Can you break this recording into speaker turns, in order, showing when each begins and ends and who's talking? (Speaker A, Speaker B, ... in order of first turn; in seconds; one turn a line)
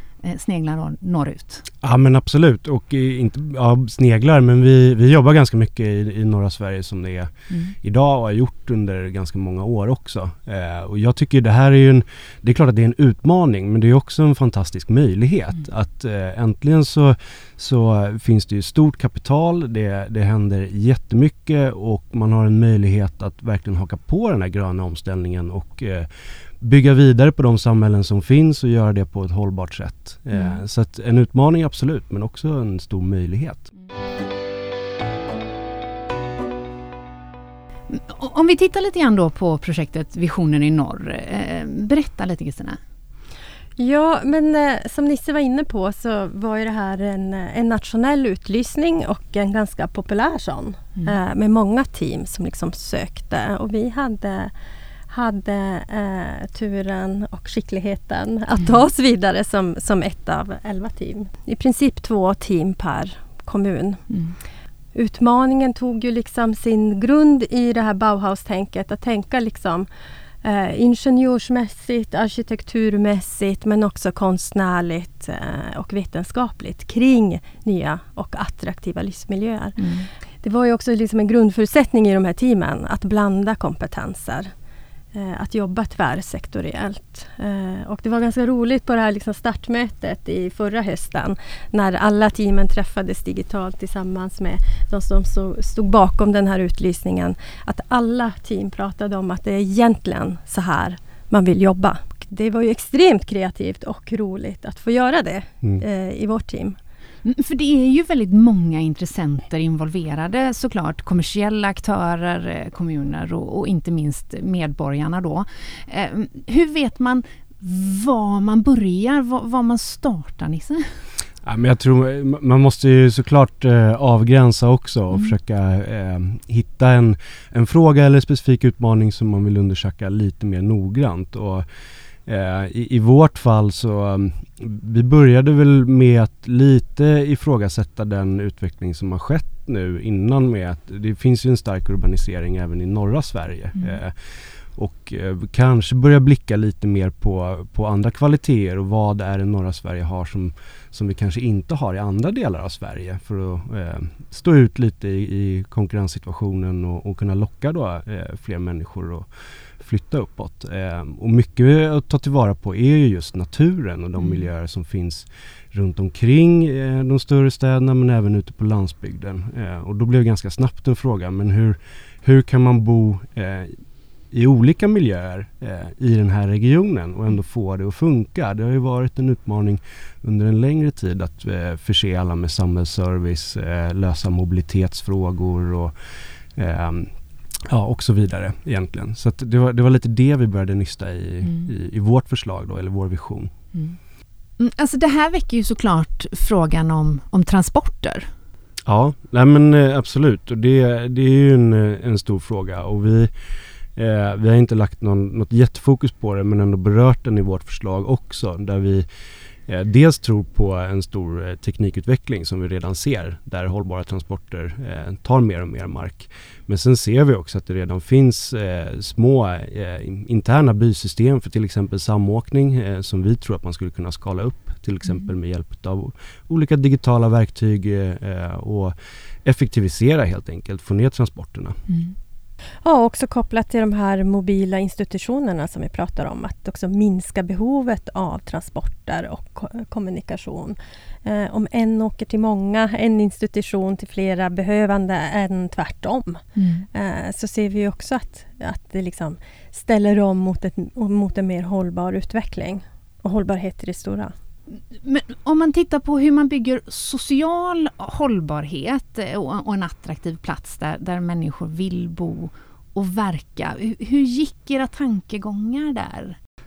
Speaker A: 0.2-1.7
Speaker B: 1.8-26.1
Speaker B: 26.6-33.7
Speaker A: 30.3-30.6
Speaker A: 37.9-42.8
Speaker C: 43.8-54.5
Speaker C: 55.1-64.1
Speaker C: 65.0-69.9
Speaker C: 70.4-84.5
Speaker A: 79.8-80.1
Speaker C: 85.1-106.8
Speaker A: 107.2-121.0
Speaker B: 121.4-131.7
Speaker B: 132.2-159.3
Speaker B: 159.8-173.8
Speaker A: 164.2-164.5
Speaker B: 174.3-186.0
Speaker B: 186.5-193.5
Speaker A: 193.7-194.0
Speaker A: 194.6-198.3
Speaker B: 198.9-203.3
Speaker B: 203.9-209.1
Speaker B: 209.7-231.8
Speaker A: 231.9-232.1
Speaker C: 232.8-254.3
Speaker A: 246.6-246.9
Speaker A: 254.7-266.4